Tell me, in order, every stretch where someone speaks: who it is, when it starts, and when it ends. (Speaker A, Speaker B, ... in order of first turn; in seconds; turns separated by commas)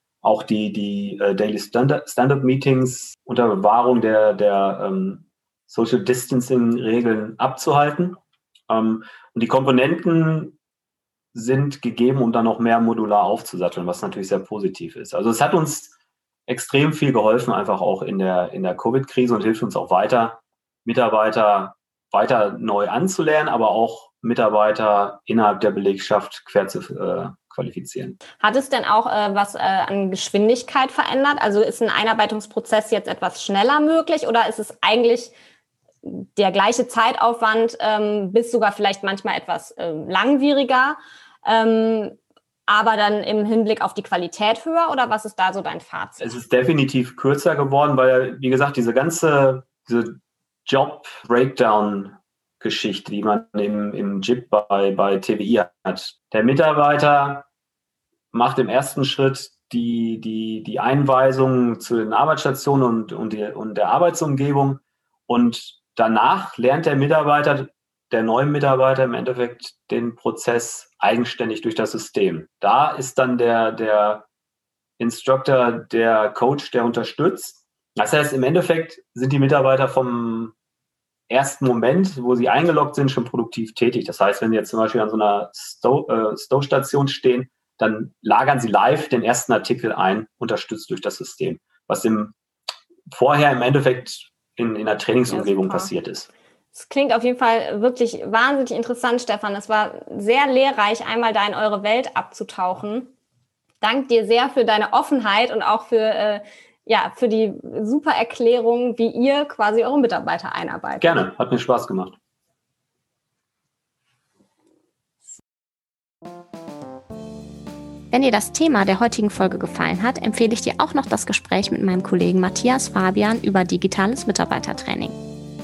Speaker A: 0.2-10.6, Speaker A: 11.3-15.9, Speaker A: 16.5-28.2, Speaker B: 28.4-35.4, Speaker B: 36.0-46.3, Speaker A: 46.2-57.5, Speaker A: 58.3-74.3, Speaker A: 75.0-80.5, Speaker A: 81.3-92.3, Speaker A: 93.1-96.3, Speaker B: 95.3-95.9, Speaker B: 96.7-103.1, Speaker B: 103.8-111.2, Speaker A: 111.0-112.2, Speaker C: 118.1-125.2